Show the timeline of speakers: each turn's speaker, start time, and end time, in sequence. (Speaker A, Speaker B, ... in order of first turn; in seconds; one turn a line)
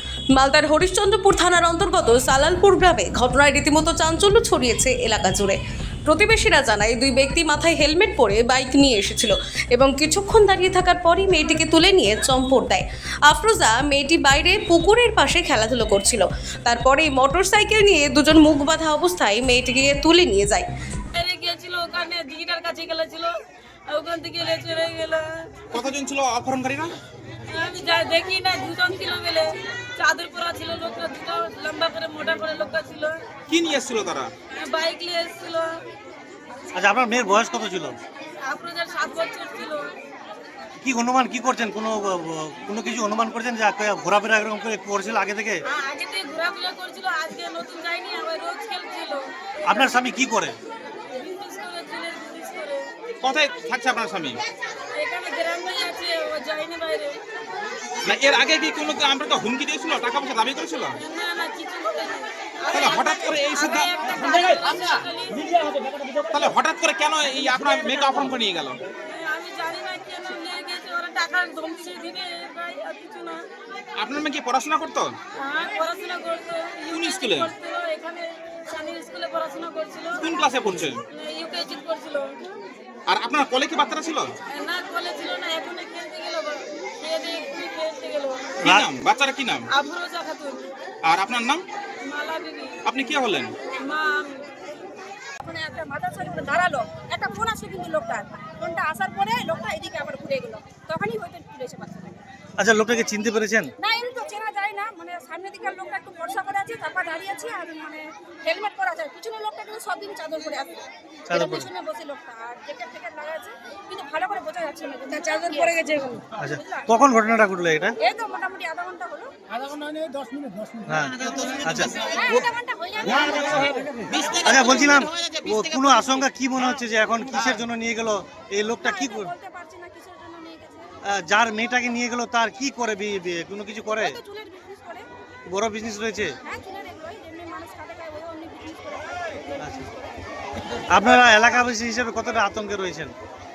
Speaker A: 0.3-20.7
Speaker B: 21.1-23.3
Speaker B: 23.9-25.3
Speaker C: 25.7-26.9
Speaker B: 27.5-33.1
Speaker C: 33.5-34.3
Speaker B: 34.5-35.8
Speaker D: 36.7-38.0
Speaker B: 38.4-40.0
Speaker D: 40.8-45.6
Speaker B: 45.7-50.0
Speaker D: 49.6-50.6
Speaker B: 51.1-52.8
Speaker C: 53.2-54.4
Speaker B: 54.9-57.2
Speaker C: 58.0-61.0
Speaker B: 61.0-66.0
Speaker C: 62.7-63.9
Speaker C: 66.2-68.8
Speaker B: 69.1-73.4
Speaker C: 74.0-75.1
Speaker B: 75.4-80.3
Speaker C: 76.9-77.5
Speaker C: 80.2-81.0
Speaker B: 81.1-82.3
Speaker C: 83.1-84.3
Speaker B: 84.5-88.5
Speaker C: 88.6-89.7
Speaker B: 89.7-90.7
Speaker C: 91.0-91.7
Speaker B: 92.0-92.8
Speaker C: 92.8-93.6
Speaker B: 93.6-94.4
Speaker E: 95.4-102.2
Speaker D: 102.6-103.7
Speaker E: 103.8-115.7
Speaker D: 111.3-111.7
Speaker B: 115.1-116.2
Speaker D: 116.4-118.0
Speaker E: 116.5-116.9
Speaker E: 118.0-119.3
Speaker D: 120.8-122.0
Speaker C: 121.3-121.9
Speaker E: 121.9-124.0
Speaker C: 124.1-126.1
Speaker D: 124.4-129.3
Speaker E: 128.8-130.9
Speaker D: 131.0-134.2
Speaker E: 133.9-135.1
Speaker D: 135.4-136.4
Speaker E: 136.4-140.2
Speaker D: 139.6-139.9
Speaker D: 140.9-143.1